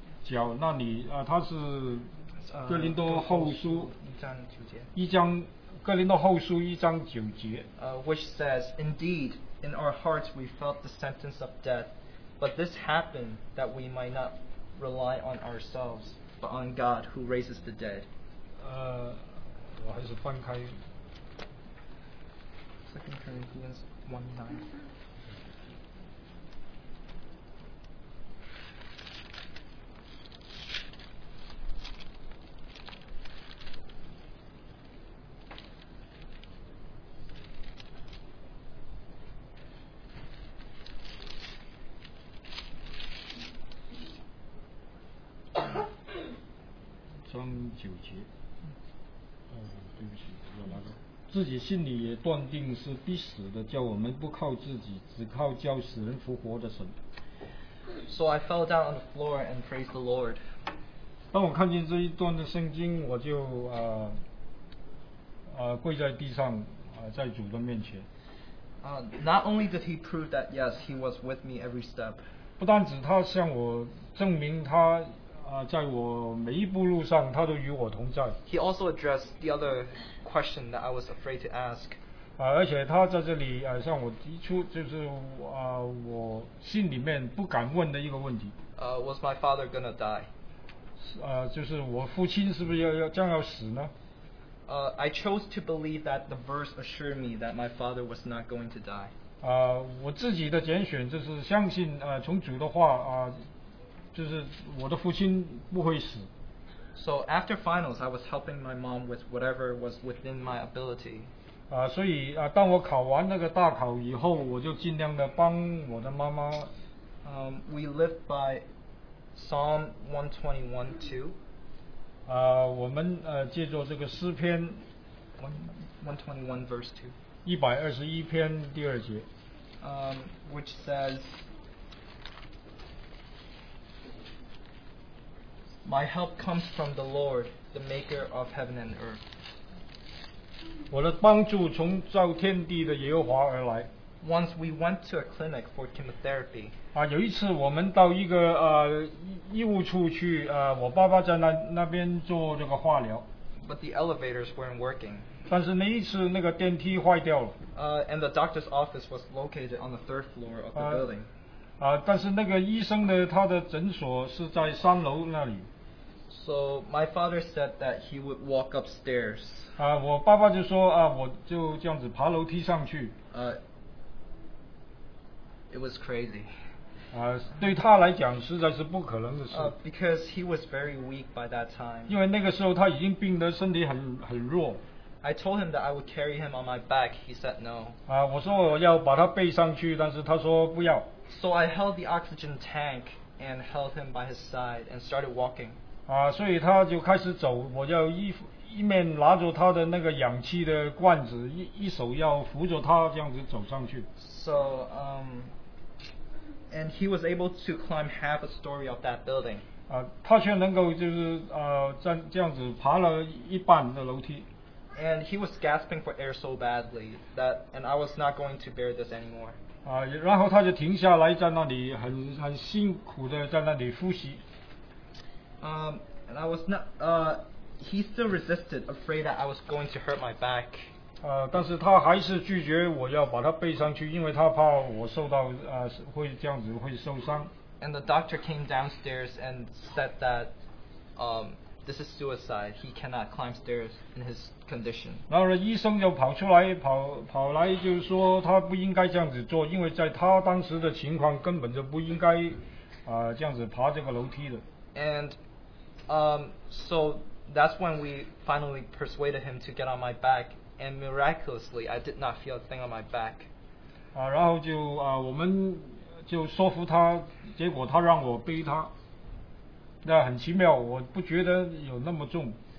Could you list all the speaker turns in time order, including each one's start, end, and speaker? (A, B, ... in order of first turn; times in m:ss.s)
0:00.2-0:02.1 A
0:02.4-0:04.9 B
0:02.7-0:03.9 A
0:05.0-0:07.7 A
0:07.8-0:18.1 B
0:18.6-0:20.8 A
0:22.9-0:24.7 B
0:47.3-0:48.3 A
0:49.5-0:57.0 A
0:58.1-1:00.4 B
1:01.3-1:04.2 A
1:05.5-1:08.1 A
1:08.8-1:12.2 B
1:12.6-1:18.4 A
1:18.5-1:22.0 B
1:22.4-1:28.5 A
1:28.8-1:30.3 B
1:31.0-1:33.9 A
1:34.7-1:39.1 B
1:39.4-1:43.4 A
1:44.1-1:46.3 A
1:47.0-1:51.3 B
1:51.7-1:56.7 A
1:57.2-1:58.7 B
1:59.4-2:01.4 B
2:02.3-2:04.8 A
2:05.4-2:07.2 B
2:07.4-2:09.3 A
2:09.8-2:11.4 B
2:15.8-2:19.2 B
2:20.9-2:23.9 A
2:24.2-2:26.8 B
2:26.9-2:33.2 A
2:33.6-2:35.3 B
2:35.5-2:37.6 A
2:37.8-2:41.3 B
2:40.8-2:41.0 A
2:41.8-2:45.7 A
2:46.3-2:49.7 B
2:49.8-2:53.2 A
2:53.3-2:53.6 B
2:55.7-2:56.5 B
2:57.1-2:59.7 A
2:59.5-3:02.2 B
3:02.1-3:04.8 A
3:05.2-3:08.0 B
3:08.1-3:11.1 A
3:11.3-3:15.8 B
3:16.1-3:24.1 A
3:24.2-3:25.5 B
3:26.7-3:29.6 B
3:29.9-3:34.5 A
3:34.9-3:39.6 B
3:39.8-3:44.4 A
3:45.6-3:50.9 B
3:51.2-3:57.5 A
3:57.8-4:00.5 B
4:01.2-4:05.2 B
4:05.3-4:14.6 A
4:15.0-4:15.4 B
4:16.1-4:23.5 B
4:24.1-4:28.9 A
4:30.0-4:32.6 A